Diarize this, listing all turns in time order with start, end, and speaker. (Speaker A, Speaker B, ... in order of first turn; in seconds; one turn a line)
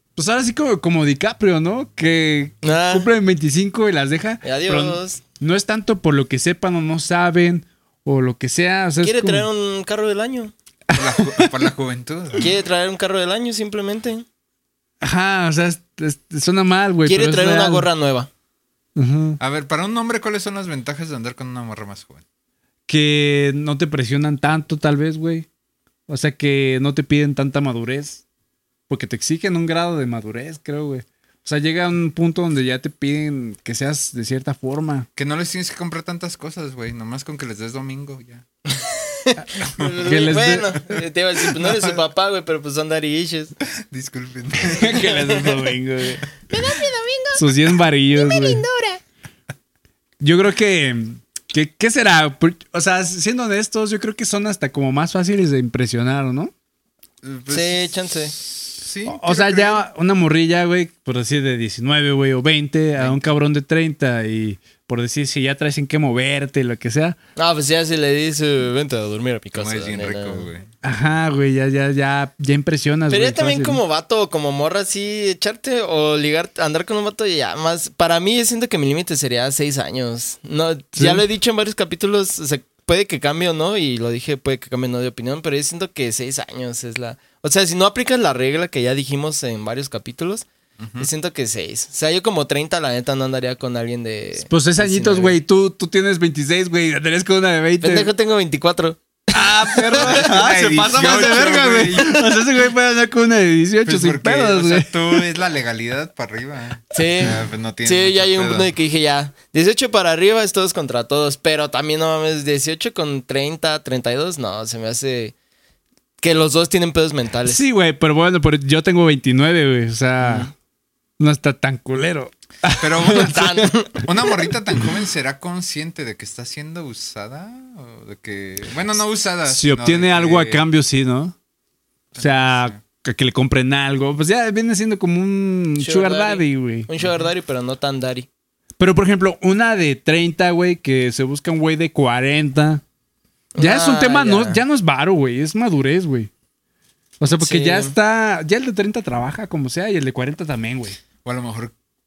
Speaker A: 0.2-9.5
Speaker B: 2.6-3.1
Speaker B: 4.4-5.2
Speaker B: 9.0-10.5
Speaker A: 10.9-11.5
Speaker C: 10.9-12.5
Speaker B: 12.4-14.2
Speaker A: 15.0-17.9
Speaker B: 17.1-18.3
Speaker A: 19.0-19.4
Speaker C: 19.4-22.2
Speaker A: 22.9-25.5
Speaker A: 26.1-28.2
Speaker A: 28.9-35.1
Speaker C: 35.2-38.5
Speaker B: 38.7-43.5
Speaker A: 40.0-40.8
Speaker C: 41.6-42.0
Speaker C: 43.6-45.5
Speaker A: 44.7-46.3
Speaker B: 44.9-45.5
Speaker B: 46.5-47.5
Speaker A: 47.4-48.6
Speaker B: 48.1-49.0
Speaker A: 50.2-56.5
Speaker C: 57.2-59.8
Speaker B: 57.5-58.4
Speaker A: 59.1-67.2
Speaker B: 67.4-70.5
Speaker C: 69.5-70.7
Speaker A: 70.8-73.8
Speaker B: 73.1-90.5
Speaker A: 81.0-81.2
Speaker C: 90.8-91.1
Speaker B: 91.0-95.4
Speaker A: 94.4-98.1
Speaker B: 97.8-100.3
Speaker A: 99.3-105.2
Speaker C: 100.0-102.4
Speaker C: 103.8-108.7
Speaker B: 106.9-115.3
Speaker B: 116.2-117.6
Speaker A: 117.5-120.5
Speaker B: 120.2-120.5
Speaker A: 121.2-123.7
Speaker C: 122.8-130.6
Speaker B: 123.1-124.2
Speaker A: 129.5-131.3
Speaker C: 132.1-132.8
Speaker A: 132.2-136.9
Speaker B: 135.8-138.3
Speaker C: 137.0-137.3
Speaker A: 138.8-142.8
Speaker B: 143.6-144.6
Speaker A: 143.6-146.3
Speaker A: 147.2-151.0
Speaker B: 147.4-147.9
Speaker C: 151.2-151.7